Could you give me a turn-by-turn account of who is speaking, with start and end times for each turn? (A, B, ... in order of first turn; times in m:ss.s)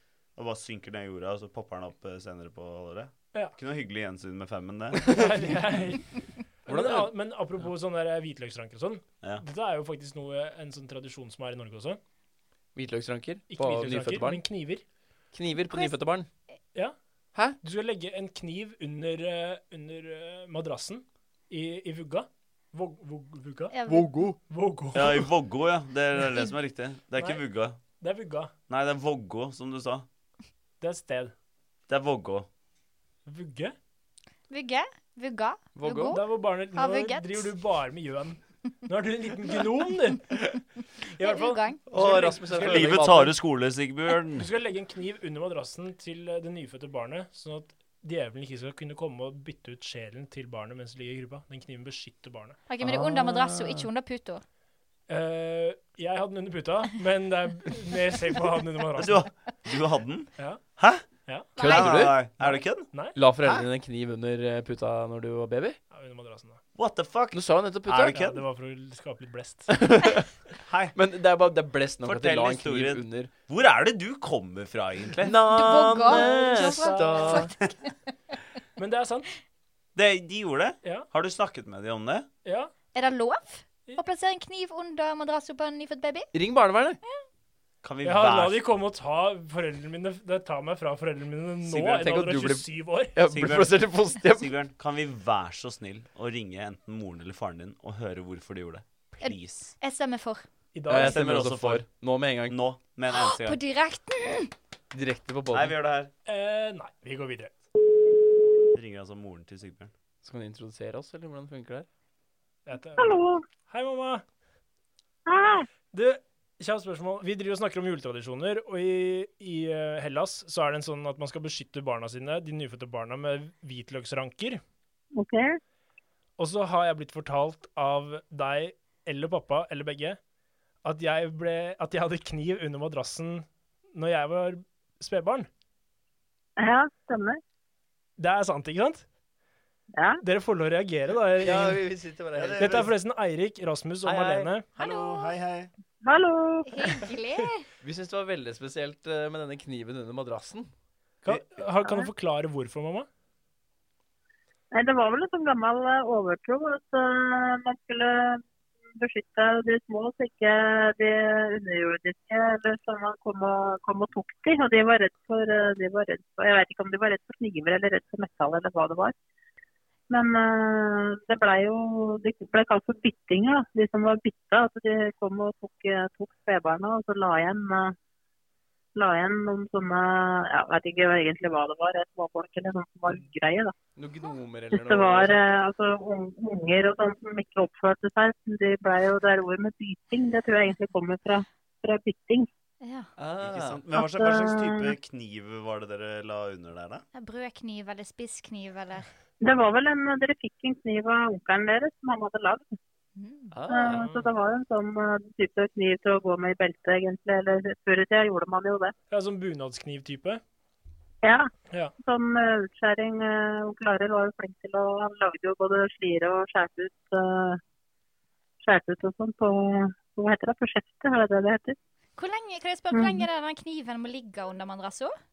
0:00.4-0:05.4 A
0:05.0-0:12.0 B
0:06.7-0:07.1 C
0:12.8-0:14.4 C
0:13.5-0:14.8 B
0:15.3-0:16.3 C
0:17.6-0:23.7 B
0:23.7-0:24.1 D
0:23.9-0:24.4 C
0:24.4-0:25.3 B
0:24.9-0:27.8 A
0:28.0-0:28.5 B
0:28.7-0:30.1 A
0:30.8-0:31.3 B
0:31.9-0:32.5 A
0:33.3-0:33.8 B
0:34.5-0:37.5 D
0:35.8-0:36.2 C
0:36.1-0:40.5 B
0:41.2-0:43.2 B
0:41.2-0:41.8 D
0:41.9-0:43.4 C
0:42.6-0:44.5 A
0:44.4-0:52.6 B
0:52.7-0:54.4 D
0:52.8-0:53.9 C
0:55.1-0:59.2 B
0:59.0-1:01.1 A
1:01.2-1:01.5 B
1:01.6-1:01.9 D
1:01.6-1:02.2 C
1:01.6-1:03.7 A
1:02.4-1:03.2 B
1:03.1-1:05.8 C
1:05.9-1:06.6 B
1:06.8-1:08.4 A
1:07.3-1:08.2 C
1:08.1-1:09.8 B
1:09.7-1:10.3 C
1:10.6-1:10.9 A
1:10.9-1:13.3 C
1:12.0-1:15.3 A
1:15.2-1:17.5 C
1:15.5-1:17.9 D
1:16.0-1:17.5 B
1:18.8-1:19.3 B
1:20.0-1:22.3 A
1:22.4-1:22.7 B
1:22.9-1:26.3 D
1:26.3-1:27.0 C
1:27.8-1:28.6 A
1:28.0-1:33.2 B
1:31.6-1:34.5 C
1:33.3-1:39.7 A
1:39.2-1:40.4 D
1:40.8-1:41.2 B
1:40.9-1:42.6 C
1:40.9-1:41.9 A
1:42.5-1:43.6 A
1:43.1-1:44.5 D
1:44.9-1:45.7 C
1:45.5-1:46.1 A
1:46.3-1:47.5 B
1:48.7-1:49.9 A
1:50.2-1:51.9 C
1:52.7-1:54.2 B
1:53.0-1:53.4 E
1:55.3-1:55.7 E
1:55.9-2:04.6 B
2:05.2-2:05.5 E
2:06.4-2:10.2 B
2:10.8-2:15.5 B
2:16.6-2:17.4 E
2:18.2-2:19.0 B
2:19.9-2:20.2 E
2:20.2-2:21.8 B
2:21.4-2:22.9 C
2:22.4-2:22.9 A
2:22.6-2:24.6 B
2:24.0-2:24.5 C
2:24.8-2:25.4 D
2:24.8-2:25.7 A
2:26.0-2:27.1 E
2:26.7-2:27.7 D
2:27.8-2:30.7 C
2:31.2-2:33.1 B
2:34.7-2:38.4 E
2:39.0-2:49.1 E
2:50.1-2:58.0 E
2:59.0-3:03.7 E
3:04.0-3:05.4 C
3:04.7-3:12.5 E
3:12.8-3:13.1 D
3:13.2-3:13.8 C
3:13.4-3:17.0 A
3:13.9-3:14.9 E
3:17.1-3:19.1 D
3:19.4-3:22.8 E
3:23.2-3:23.5 D
3:23.5-3:24.2 C
3:23.7-3:28.9 E
3:29.1-3:30.4 B
3:31.2-3:37.6 E
3:38.6-3:41.8 E
3:42.2-3:45.1 D
3:42.9-3:43.3 E